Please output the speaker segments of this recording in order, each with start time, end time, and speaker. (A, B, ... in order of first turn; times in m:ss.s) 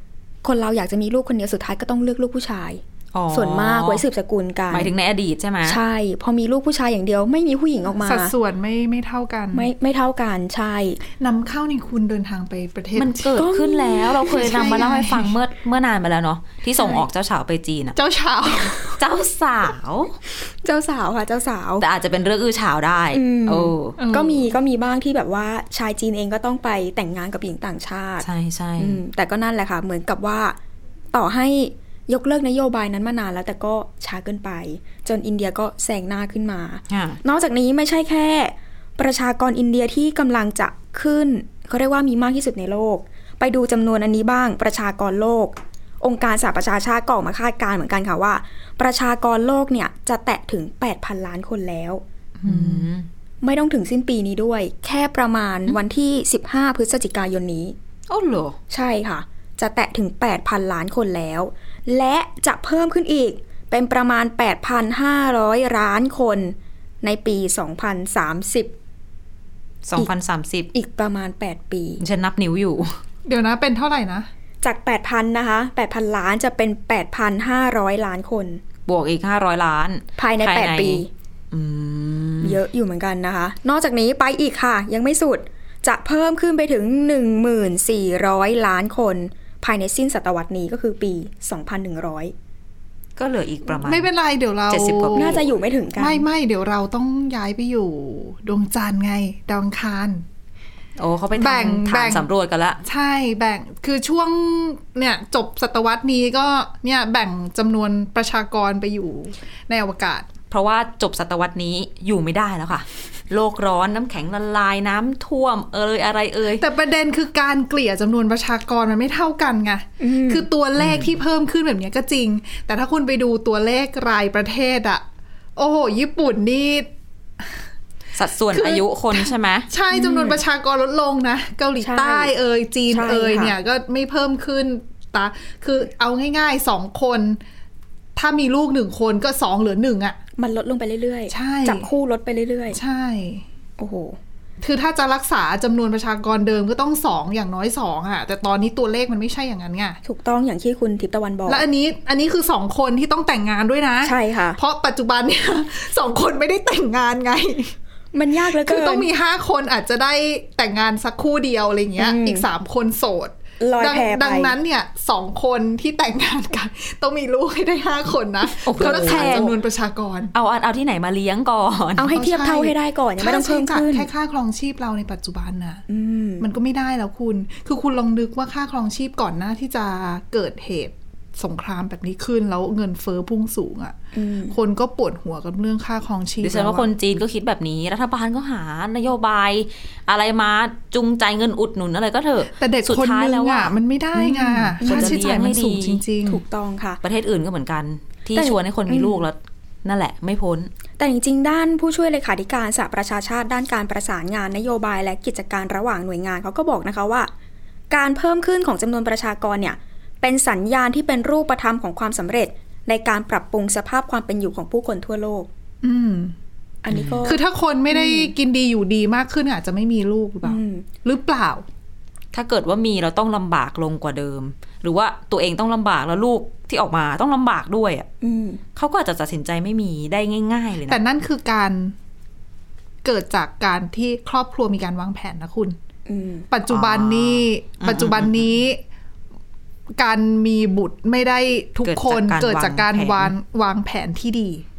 0:00.4-0:04.9 A
0:03.1-0:04.0 B
0:04.7-0:05.8 B
0:05.6-0:08.3 A
0:08.0-0:09.7 C
0:09.5-0:11.0 A
0:11.2-0:13.3 C
0:13.0-0:18.0 B
0:13.4-0:14.7 A
0:14.2-0:15.3 C
0:16.8-0:17.0 A
0:18.0-0:19.0 C
0:19.0-0:20.2 B
0:20.4-0:21.8 A
0:21.8-0:24.0 B
0:23.1-0:28.3 A
0:24.0-0:24.5 C
0:28.2-0:29.0 B
0:28.8-0:30.6 A
0:31.1-0:52.0 A
0:36.9-0:37.2 B
0:52.4-0:52.8 C
0:52.4-0:53.1 B
0:53.4-0:57.8 A
0:58.1-0:58.6 B
0:58.7-1:08.7 A
1:09.8-1:10.7 B
1:10.7-1:12.0 A
1:12.0-1:13.0 B
1:13.3-1:14.3 C
1:14.6-1:18.6 A
1:18.9-1:22.6 B
1:20.2-1:21.1 A
1:22.4-1:32.3 A
1:33.2-1:34.1 B
1:33.8-1:35.4 C
1:34.7-1:35.4 B
1:35.2-1:36.3 A
1:36.0-1:40.2 C
1:41.0-1:42.8 B
1:41.4-1:42.3 C
1:42.8-1:50.3 C
1:50.5-1:56.6 B
1:56.6-2:05.0 C
2:00.0-2:00.5 A
2:00.8-2:01.1 B
2:05.6-2:06.9 C
2:08.2-2:09.7 B
2:08.5-2:17.4 C
2:09.9-2:10.4 A
2:11.8-2:12.3 A
2:12.9-2:13.6 A
2:18.2-2:20.2 C
2:20.4-2:22.8 A
2:21.3-2:21.9 C
2:22.7-2:23.4 C
2:23.8-2:24.2 A
2:24.6-2:30.0 C
2:30.0-2:31.6 A
2:31.5-2:37.7 C
2:34.0-2:34.6 A
2:38.1-2:39.1 A
2:38.5-2:50.3 C
2:42.0-2:42.5 A
2:43.6-2:44.6 A
2:48.6-2:49.6 B
2:48.8-2:49.4 A
2:50.3-2:52.1 B
2:52.0-2:54.1 A
2:52.1-2:55.8 C
2:55.9-2:56.5 A
2:56.4-3:04.0 C
3:04.1-3:04.6 A
3:04.5-3:06.9 C
3:06.4-3:13.7 B
3:12.6-3:16.4 C
3:14.2-3:15.3 A
3:14.4-3:16.0 B
3:16.3-3:17.0 A
3:17.0-3:20.7 B
3:18.4-3:19.2 A
3:21.0-3:27.3 A
3:27.9-3:35.5 A
3:35.8-3:36.3 C
3:36.8-3:38.3 A
3:36.9-3:37.3 B
3:37.2-3:41.6 C
3:40.4-3:40.9 A
3:42.3-3:48.1 B
3:48.2-3:48.6 A
3:48.8-3:51.0 B
3:50.9-3:51.9 C
3:53.0-3:55.8 C
3:56.1-3:56.5 A
3:56.5-3:58.8 C
3:56.7-3:58.5 B
4:00.0-4:04.6 C
4:01.8-4:03.3 B